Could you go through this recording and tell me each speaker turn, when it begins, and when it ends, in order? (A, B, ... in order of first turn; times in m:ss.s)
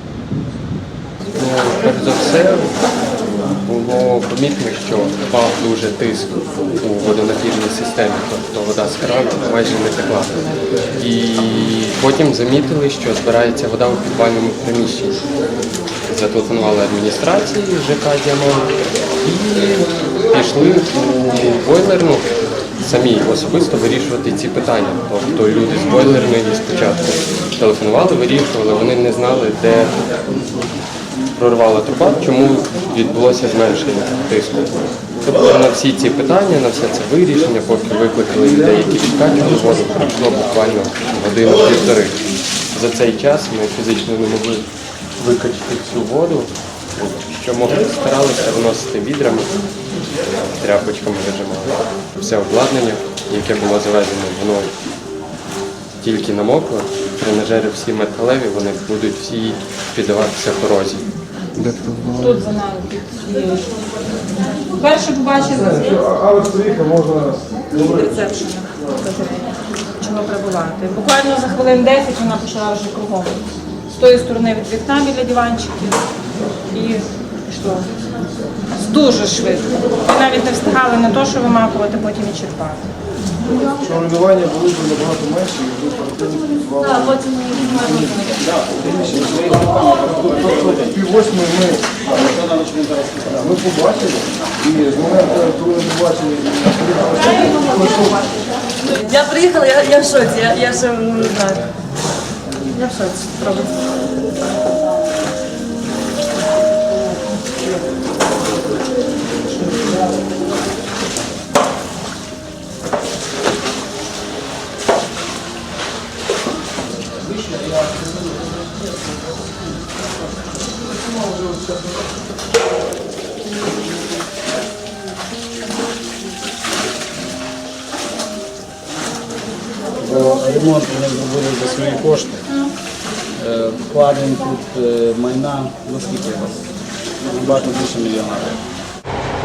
0:01.3-0:02.8 A
0:03.4-0:15.2 A
0:16.1-0:30.0 A
0:31.4-0:49.6 A
0:50.4-0:54.8 A
0:56.0-1:02.1 A
1:02.1-1:03.8 B
1:04.5-1:06.0 B
1:05.5-1:08.1 C
1:07.8-1:16.0 B
1:16.7-1:17.9 B
1:18.8-1:22.8 B
1:23.6-1:28.3 C
1:28.4-1:30.8 D
1:30.3-1:32.3 C
1:32.3-1:33.4 D
1:33.4-1:38.2 C
1:38.8-1:41.7 E
1:42.6-1:43.7 E
2:10.0-2:12.5 D
2:13.3-2:18.6 D